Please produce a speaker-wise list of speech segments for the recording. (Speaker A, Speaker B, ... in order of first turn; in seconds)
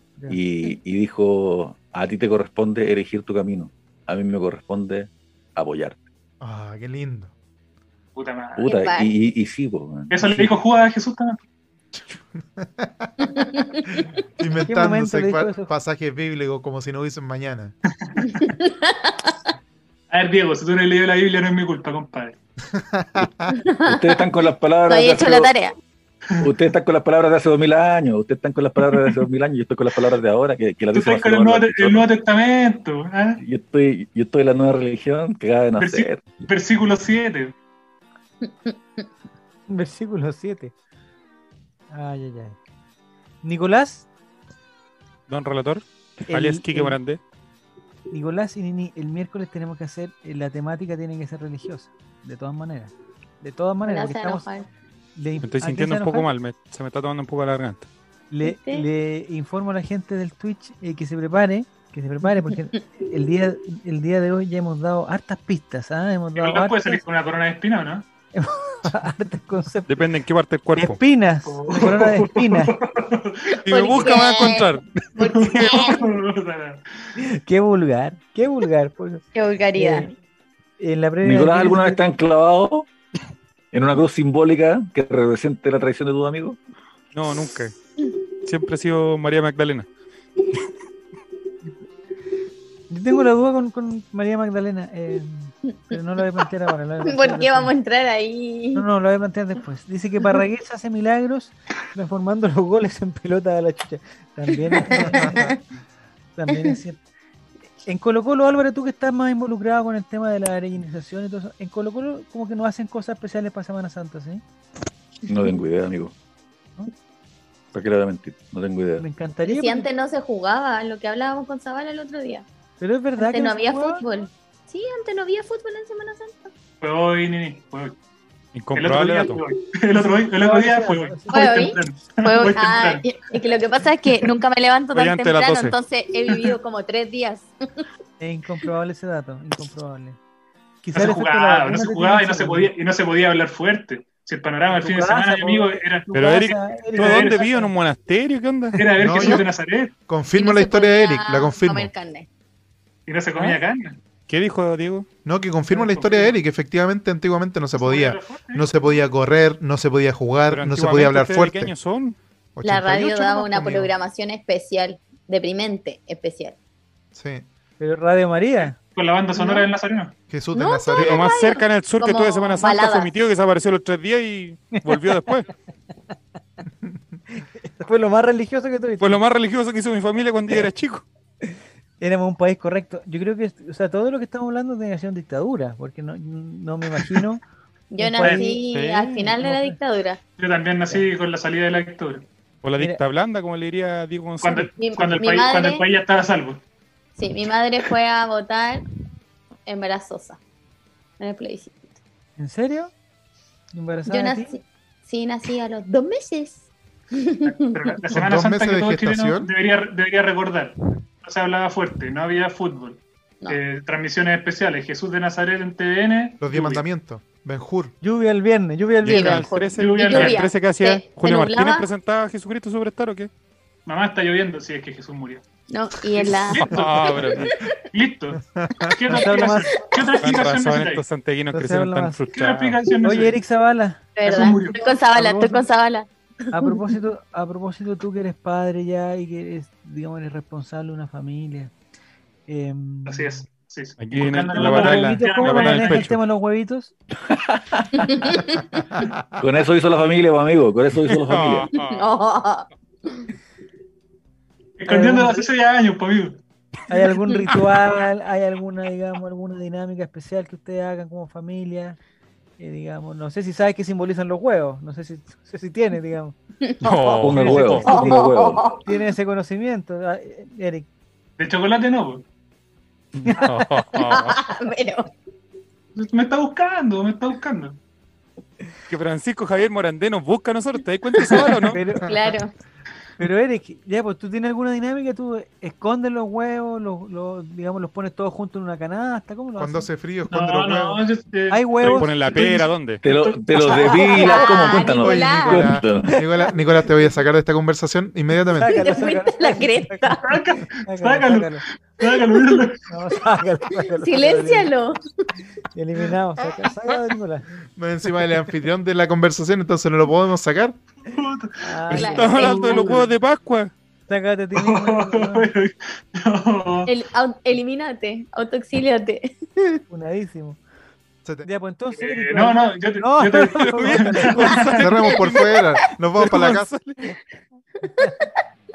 Speaker A: 0.3-6.0, 8.6-10.6, 23.9-25.5, 26.4-32.1, 33.4-36.2, 81.2-82.9, 83.7-86.6, 115.3-116.1, 117.7-119.0, 247.3-248.4, 249.4-251.7, 267.2-268.7, 293.0-296.2
Speaker B: 6.4-7.3, 12.1-17.7, 22.7-23.6, 105.1-105.5, 149.0-149.5, 150.1-151.9, 155.2-161.7, 162.6-163.9, 167.1-167.4, 170.3-171.3, 208.1-209.5, 216.4-217.9, 228.5-228.9, 289.6-291.0, 295.0-298.9, 307.8-310.8, 324.8-326.7
Speaker C: 8.1-8.7, 10.1-11.3, 18.0-18.4, 20.1-22.3, 30.9-33.4, 35.8-37.5, 66.3-68.0, 71.5-73.6, 75.2-76.8, 126.8-128.0, 128.7-133.3, 136.3-136.5, 140.9-147.5, 148.7-149.9, 153.1-154.0, 155.7-156.3, 157.7-158.9, 168.9-170.1, 188.2-188.5, 190.4-192.3, 194.4-196.6, 207.4-216.8, 219.8-220.5, 223.8-225.4, 226.1-231.0, 232.3-233.4, 234.2-234.8, 243.1-246.1, 254.8-256.4, 271.4-272.2, 275.9-277.8, 290.3-294.8, 300.2-302.8, 311.1-312.9, 314.5-316.9, 321.9-324.9
Speaker D: 8.6-9.1, 13.2-14.1, 18.2-19.4, 23.5-24.2, 24.9-25.8, 38.4-39.0, 53.8-54.7, 58.4-58.9, 73.7-76.0, 79.3-80.1, 97.0-98.8, 104.7-105.6, 106.5-106.8, 119.4-122.4, 123.2-126.5, 131.3-137.8, 150.3-152.3, 162.6-166.6, 170.5-173.1, 187.9-190.2, 194.8-195.8, 197.2-198.8, 199.7-200.4, 201.2-201.9, 204.1-208.0, 219.1-221.9, 225.7-227.8, 234.2-236.8, 248.1-248.6, 251.8-253.2, 267.8-268.8, 273.9-275.1, 281.9-282.5, 293.7-295.7, 298.7-300.4, 303.9-305.1, 311.9-313.1, 316.9-319.8, 327.8-328.3
Speaker E: 14.6-15.7, 39.7-40.7, 41.9-42.6, 43.4-44.1, 46.3-47.0, 48.1-54.5, 55.1-56.3, 58.3-67.0, 68.3-70.1, 70.7-72.7, 77.2-80.1, 80.8-82.0, 92.9-97.7, 98.7-105.5, 106.3-107.0, 107.8-114.4, 119.0-119.9, 122.8-124.0, 130.0-131.7, 138.2-140.2, 140.8-142.7, 144.7-147.7, 167.8-168.8, 169.3-169.7, 177.3-179.2, 182.0-187.4, 188.0-188.6, 189.4-189.8, 202.4-202.9, 203.7-204.5, 218.0-219.5, 229.1-229.8, 231.5-232.2, 233.0-235.7, 236.5-241.7, 242.5-243.4, 244.5-246.9, 254.9-255.5, 256.9-262.0, 262.6-270.9, 273.2-273.6, 281.2-282.3, 283.2-289.9, 291.5-292.2, 298.5-300.2, 300.9-301.6, 302.9-304.7, 305.7-307.4, 311.6-313.0, 314.1-315.5, 319.9-320.6, 321.4-324.7
Speaker F: 45.3-47.2, 55.4-57.9, 69.9-71.0, 73.7-75.8, 87.1-87.7, 88.4-89.9, 128.5-129.4, 134.9-135.8, 146.1-149.0, 154.3-155.1, 160.5-162.2, 170.9-175.5, 179.0-181.0, 188.7-189.2, 192.6-194.7, 219.0-223.3, 226.6-227.5, 230.2-232.8, 244.0-246.2, 251.1-252.1, 266.8-267.9, 273.1-274.4, 278.9-282.0, 291.9-293.0, 312.0-313.7, 323.6-325.5, 326.1-327.1